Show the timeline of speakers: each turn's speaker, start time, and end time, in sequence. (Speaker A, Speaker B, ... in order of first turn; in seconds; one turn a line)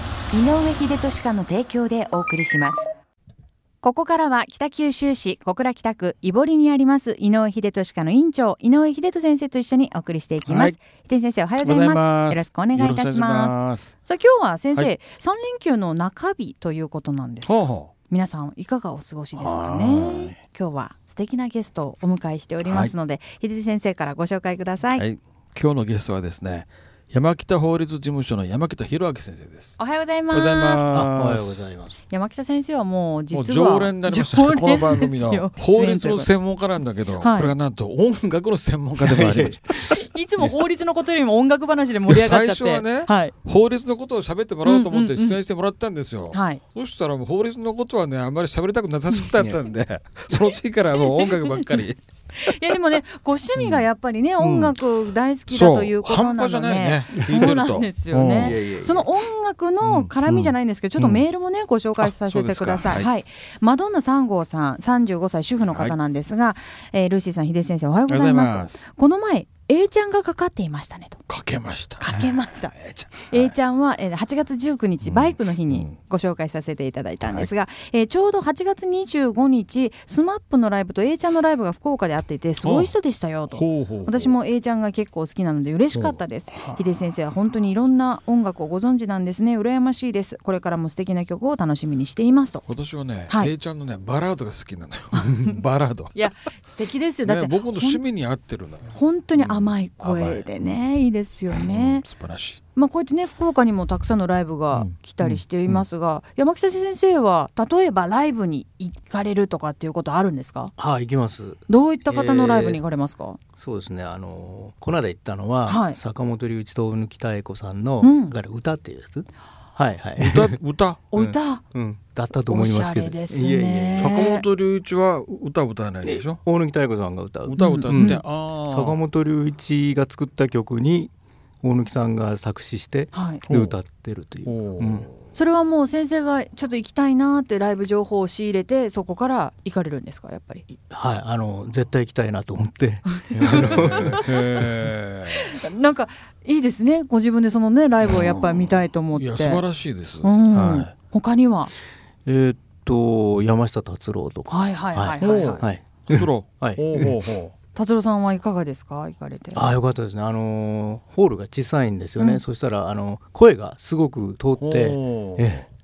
Speaker A: 0.3-2.9
Speaker A: 3.8-17.5
Speaker B: 10.4-10.8
Speaker B: 11.6-13.9
Speaker B: 17.5-17.9
Speaker A: 18.1-25.1
Speaker B: 19.4-20.4
Speaker B: 22.6-22.9
Speaker B: 24.9-29.8
Speaker A: 29.8-30.9
Speaker B: 30.3-31.7
Speaker C: 30.9-32.0
Speaker A: 32.1-36.3
Speaker B: 33.3-39.7
Speaker A: 37.2-37.5
Speaker C: 39.0-40.0
Speaker A: 39.9-43.3
Speaker B: 42.1-52.8
Speaker A: 44.6-45.4
Speaker A: 46.3-46.6
Speaker A: 51.2-51.8
Speaker A: 52.4-71.2
Speaker B: 53.6-53.8
Speaker B: 54.4-54.8
Speaker B: 55.5-58.6
Speaker C: 58.4-59.1
Speaker B: 59.8-61.2
Speaker B: 62.0-63.1
Speaker B: 65.7-66.0
Speaker B: 68.1-68.8
Speaker B: 71.3-73.5
Speaker A: 72.0-72.7
Speaker A: 73.3-92.7
Speaker B: 75.0-76.0
Speaker B: 77.2-77.5
Speaker B: 82.6-82.9
Speaker B: 83.5-84.4
Speaker B: 85.9-86.8
Speaker B: 92.7-96.2
Speaker A: 95.1-95.6
Speaker A: 96.1-98.0
Speaker B: 97.2-100.8
Speaker A: 98.9-102.0
Speaker B: 101.5-102.6
Speaker A: 102.8-110.7
Speaker B: 104.7-105.8
Speaker C: 110.8-112.8
Speaker A: 111.7-113.4
Speaker C: 113.6-120.6
Speaker A: 115.7-116.0
Speaker A: 118.0-118.3
Speaker B: 120.2-121.0
Speaker A: 121.1-121.6
Speaker C: 121.1-124.2
Speaker A: 122.5-124.4
Speaker B: 123.9-126.4
Speaker C: 126.0-131.1
Speaker B: 127.5-129.0
Speaker A: 127.6-128.2
Speaker C: 131.6-135.1
Speaker A: 133.1-133.4
Speaker B: 133.5-133.8
Speaker B: 134.5-135.2
Speaker A: 135.3-140.7
Speaker C: 140.7-144.2
Speaker A: 143.3-144.4
Speaker B: 143.5-145.6
Speaker A: 145.3-149.6
Speaker B: 148.0-150.9
Speaker A: 150.2-151.7
Speaker C: 152.3-157.1
Speaker A: 154.5-155.6
Speaker B: 155.2-157.5
Speaker A: 157.8-159.7
Speaker C: 159.6-165.7
Speaker B: 164.6-165.6